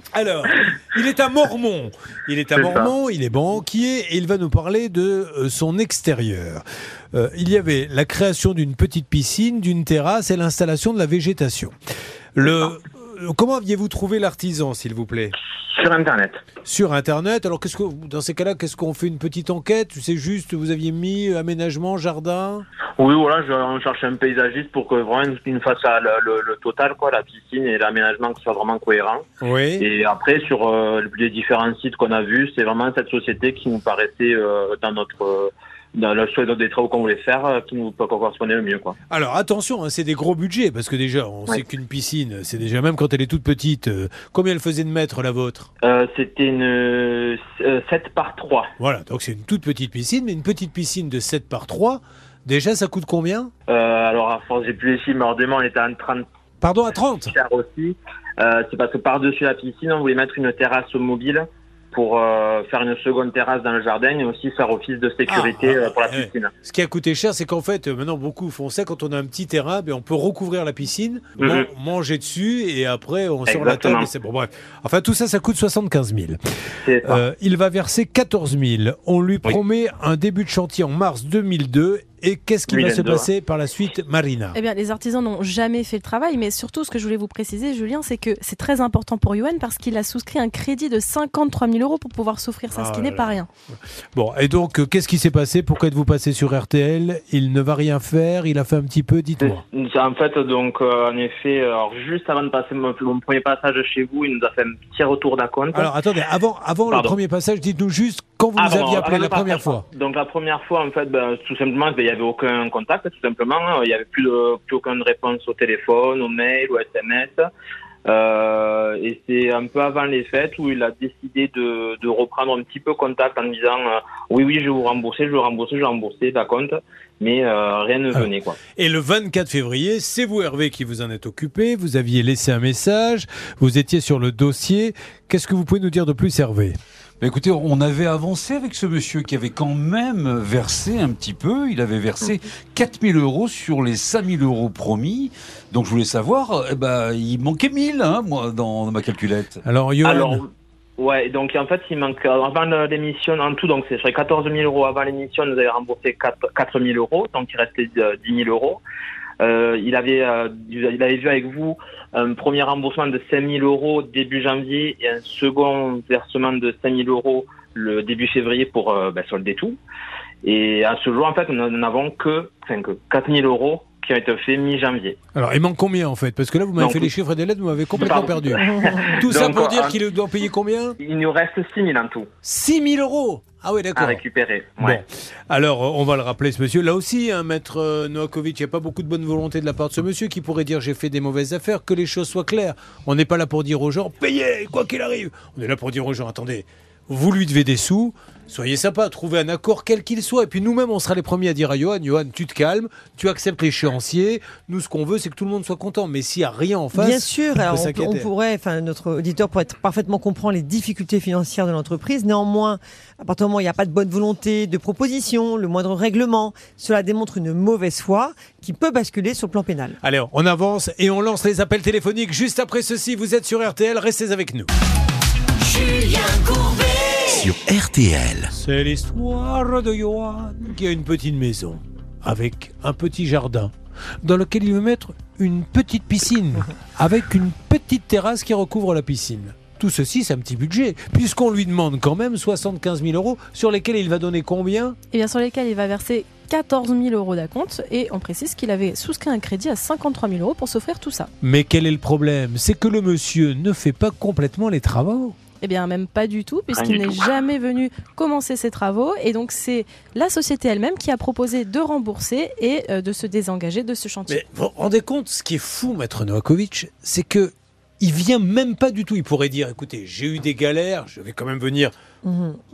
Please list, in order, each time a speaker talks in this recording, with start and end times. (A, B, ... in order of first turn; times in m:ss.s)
0:00.1-0:11.7 A
0:02.6-0:02.9 B
0:12.4-0:15.4 A
0:15.8-0:16.4 B
0:16.6-0:22.6 A
0:23.0-0:29.2 B
0:29.4-0:29.8 A
0:29.8-0:39.0 B
0:39.1-0:45.7 A
0:45.8-0:48.7 B
0:48.8-0:53.5 A
0:53.7-0:56.2 B
0:56.6-0:57.3 A
0:57.3-1:06.5 B
1:05.3-1:16.4 A
1:11.4-1:11.7 B
1:13.5-1:14.1 B
1:16.8-1:17.2 B
1:17.0-1:24.6 A
1:22.7-1:23.3 B
1:24.5-1:33.5 C
1:32.7-1:33.4 A
1:34.1-1:39.6 A
1:39.4-1:45.9 B
1:45.7-1:49.8 A
1:46.9-1:47.2 B
1:48.6-1:57.4 B
1:58.1-2:08.6 B
2:08.1-2:16.8 A
2:17.2-2:29.6 D
2:29.6-2:30.4 A
2:30.0-2:38.8 B
2:39.4-2:49.8 B
2:50.4-2:55.2 B
2:55.4-3:01.0 A
2:56.8-2:57.1 B
2:57.9-3:00.0 B
3:01.0-3:02.3 B
3:02.4-3:04.2 A
3:04.0-3:05.0 B
3:04.8-3:28.3 A
3:27.0-3:39.9 E
3:40.0-3:44.7 A
3:46.4-3:46.7 C
3:48.5-4:05.0 A
4:05.1-4:11.3 C
4:11.4-4:15.4 A
4:15.6-4:24.4 C
4:16.7-4:17.3 B
4:24.3-4:31.9 A
4:32.2-4:32.6 E